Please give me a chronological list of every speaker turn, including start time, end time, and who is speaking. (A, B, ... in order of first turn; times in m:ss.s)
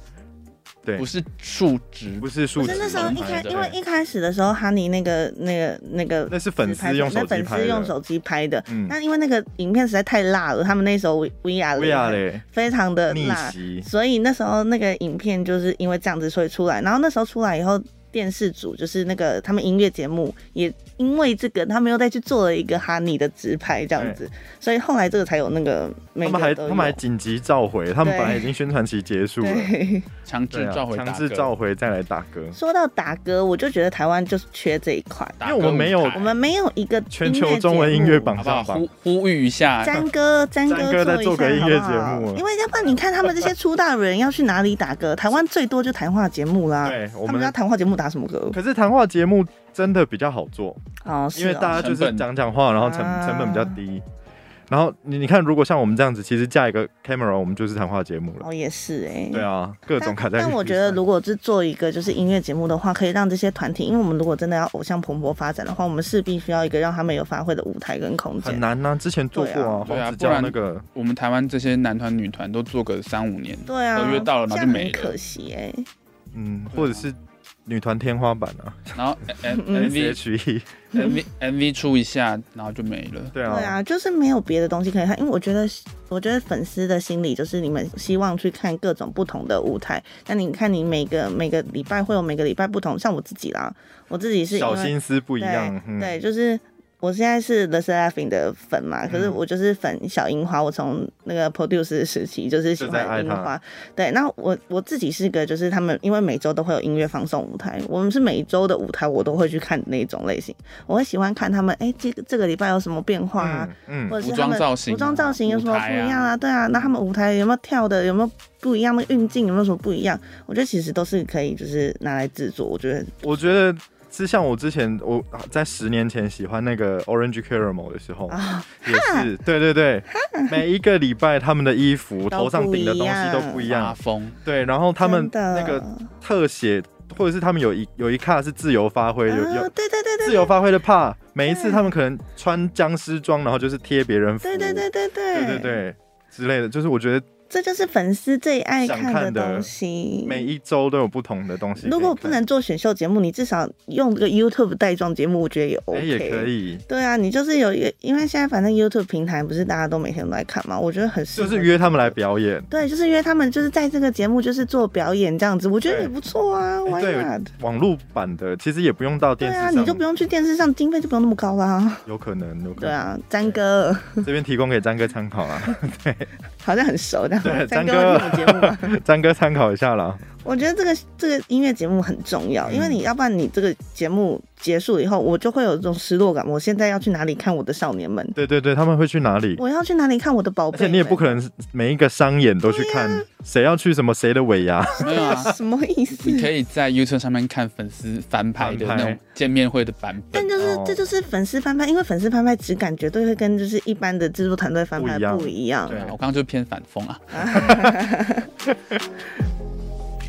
0:01.0-0:03.7 A
0:02.2-0:03.8 B
0:02.6-0:27.0 C
0:06.3-0:08.0 B
0:08.7-0:09.0 B
0:11.8-0:12.4 B
0:13.1-0:13.9 B
0:26.2-0:29.7 B
0:28.0-0:28.5 C
0:29.4-0:30.1 C
0:30.3-0:31.5 A
0:30.5-0:32.6 B
0:32.5-0:35.4 C
0:35.4-0:36.4 A
0:35.4-0:36.2 B
0:36.2-0:38.4 C
0:37.1-0:38.9 B
0:38.4-0:40.0 A
0:39.8-0:48.6 C
0:40.7-0:42.4 B
0:46.8-0:47.5 B
0:48.5-0:50.8 B
0:51.0-0:51.9 C
0:51.4-0:54.0 B
0:51.8-0:52.3 A
0:52.8-0:53.8 C
0:54.7-0:58.5 B
0:58.4-1:08.6 C
0:59.3-1:01.0 B
1:08.4-1:10.8 B
1:09.3-1:09.9 C
1:09.9-1:15.2 A
1:13.7-1:15.9 C
1:16.3-1:19.0 B
1:16.7-1:17.0 A
1:19.0-1:20.2 A
1:19.6-1:19.9 C
1:19.7-1:21.2 B
1:20.9-1:23.4 A
1:23.3-1:23.8 B
1:23.5-2:03.2 C
1:34.5-1:36.2 B
1:39.1-1:39.4 B
1:42.8-1:43.5 B
1:53.4-1:54.2 B
1:54.2-1:56.3 A
2:03.2-2:19.7 B
2:08.3-2:09.3 C
2:10.1-2:10.6 C
2:12.3-2:13.7 C
2:13.7-2:14.4 A
2:15.0-2:16.1 C
2:19.3-2:20.5 C
2:20.2-2:27.3 B
2:21.5-2:21.9 C
2:24.4-2:25.8 C
2:27.5-2:30.5 C
2:28.8-2:29.7 B
2:30.3-2:32.4 B
2:31.8-2:42.2 C
2:35.9-2:36.8 B
2:41.4-2:42.7 B
2:42.7-2:47.5 C
2:45.8-2:46.1 B
2:46.9-2:50.0 B
2:49.4-2:52.1 C
2:52.1-2:53.6 B
2:52.8-2:54.3 C
2:54.2-2:56.3 B
2:56.6-2:59.0 C
2:57.4-3:00.2 B
3:00.4-3:08.4 C
3:02.7-3:03.0 B
3:08.4-3:09.6 B
3:09.6-3:11.4 C
3:10.7-3:15.5 B
3:12.6-3:13.3 C
3:15.0-3:16.5 C
3:15.0-3:15.5 A
3:16.2-3:20.5 A
3:18.6-3:19.2 B
3:20.3-3:26.0 C
3:20.6-3:21.0 B
3:25.0-3:26.2 B
3:25.9-3:27.6 A
3:27.3-3:28.5 C
3:27.6-3:27.9 B